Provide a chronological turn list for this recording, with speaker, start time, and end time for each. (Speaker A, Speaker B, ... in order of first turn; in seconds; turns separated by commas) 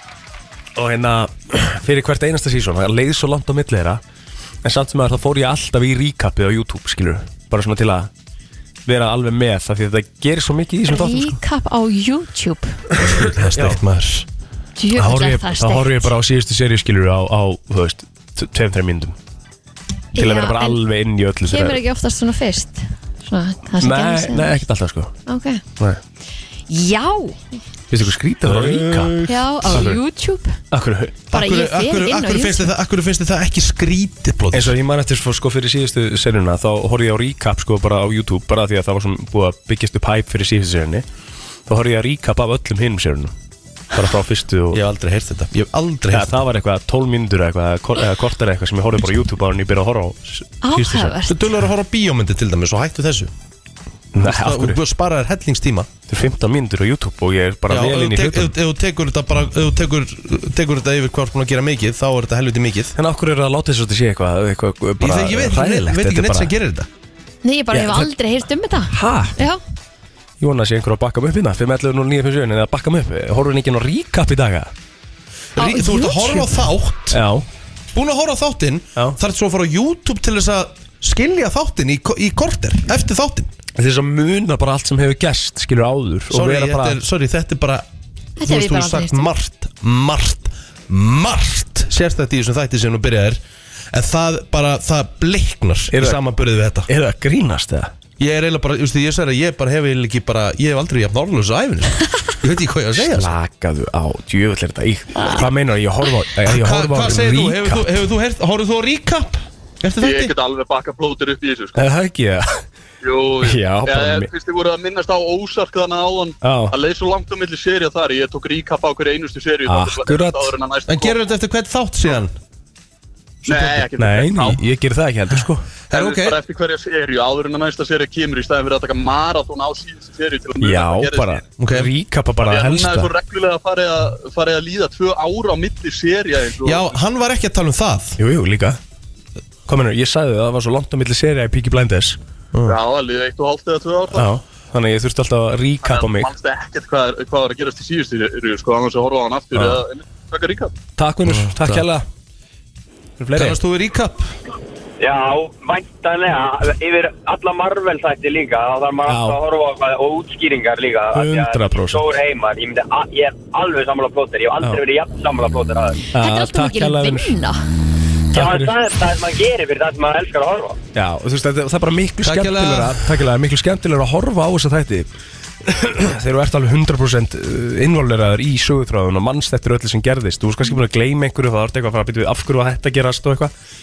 Speaker A: 0.8-4.0, Speaker A: 4.6-8.1, Speaker A: 8.8-11.4, Speaker B: 10.9-12.8, Speaker A: 12.9-13.8, Speaker C: 13.0-14.2, Speaker B: 14.8-16.1, Speaker A: 14.9-19.1, Speaker B: 20.1-20.8, Speaker A: 20.1-21.8, Speaker B: 21.5-24.6, Speaker A: 23.8-25.1, Speaker B: 25.3-25.6, Speaker B: 26.7-27.4, Speaker A: 27.9-30.0, Speaker C: 28.4-29.2, Speaker B: 29.2-30.6, Speaker A: 30.7-31.2, Speaker C: 31.3-34.7, Speaker B: 31.3-32.7, Speaker A: 34.5-41.0, Speaker A: 41.7-43.3, Speaker A: 43.9-44.8, Speaker C: 44.7-46.4, Speaker A: 46.1-51.1, Speaker B: 50.6-51.4, Speaker C: 51.3-53.3, Speaker A: 54.1-54.8, Speaker C: 54.2-55.9, Speaker A: 56.1-58.5, Speaker C: 57.7-63.0, Speaker A: 63.0-66.5, Speaker C: 65.0-66.9, Speaker B: 67.4-69.6, Speaker A: 67.7-68.1, Speaker A: 68.9-69.3, Speaker A: 70.4-74.7, Speaker C: 75.5-77.2, Speaker B: 75.6-76.5, Speaker A: 77.1-77.4, Speaker C: 77.9-83.5, Speaker A: 83.8-87.0, Speaker C: 86.3-87.8, Speaker B: 88.4-89.3, Speaker C: 88.4-93.4, Speaker C: 93.9-96.9, Speaker A: 95.9-96.2, Speaker A: 96.9-97.9, Speaker C: 98.2-103.3, Speaker A: 103.0-107.9, Speaker C: 106.5-110.3, Speaker D: 110.0-111.8, Speaker A: 111.8-112.6, Speaker D: 113.0-121.2, Speaker A: 113.4-114.3, Speaker A: 116.4-116.7, Speaker A: 119.7-120.5, Speaker C: 120.9-122.3, Speaker D: 123.4-124.6, Speaker A: 124.0-125.7, Speaker C: 125.9-126.4, Speaker D: 125.9-131.4, Speaker A: 130.6-133.1, Speaker C: 131.6-131.9, Speaker D: 132.4-136.9, Speaker C: 136.6-138.2, Speaker A: 138.2-138.8, Speaker A: 139.7-142.2, Speaker D: 142.6-144.3, Speaker A: 144.1-146.3, Speaker D: 145.8-150.7, Speaker A: 149.5-149.8, Speaker A: 151.0-152.1, Speaker C: 151.2-151.8, Speaker A: 153.2-153.6, Speaker C: 153.3-154.3, Speaker E: 155.0-166.0, Speaker A: 159.1-159.4, Speaker A: 161.1-162.1, Speaker A: 166.1-167.4, Speaker B: 166.1-167.6, Speaker E: 168.3-170.8, Speaker A: 168.3-168.7, Speaker A: 170.9-175.1, Speaker C: 172.2-173.0, Speaker A: 175.6-183.5